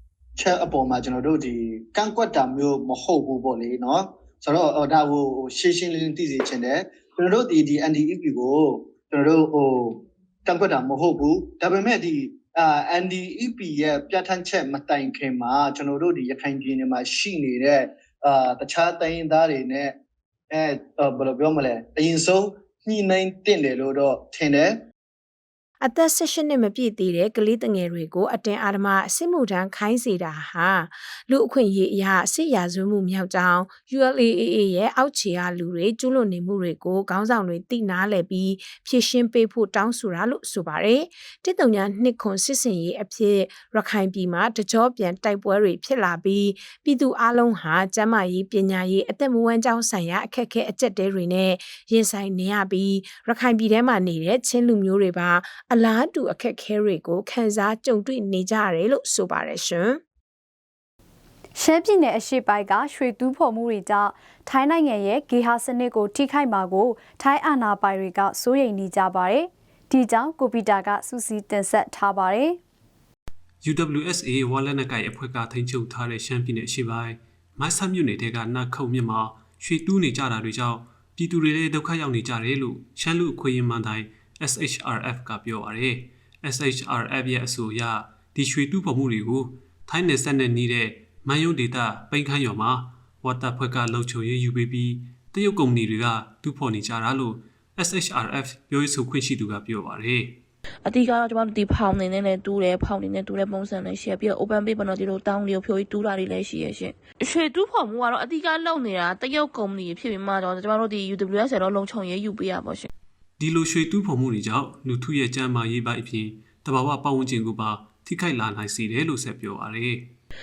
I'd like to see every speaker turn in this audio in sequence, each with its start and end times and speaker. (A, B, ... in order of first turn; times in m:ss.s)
0:00.4-0:20.0 A
0:20.5-0:24.8 A
0:25.8-1:00.0 B
1:01.6-1:12.6 C
1:13.6-1:40.4 D
1:40.8-1:52.9 E
1:53.4-2:00.1 D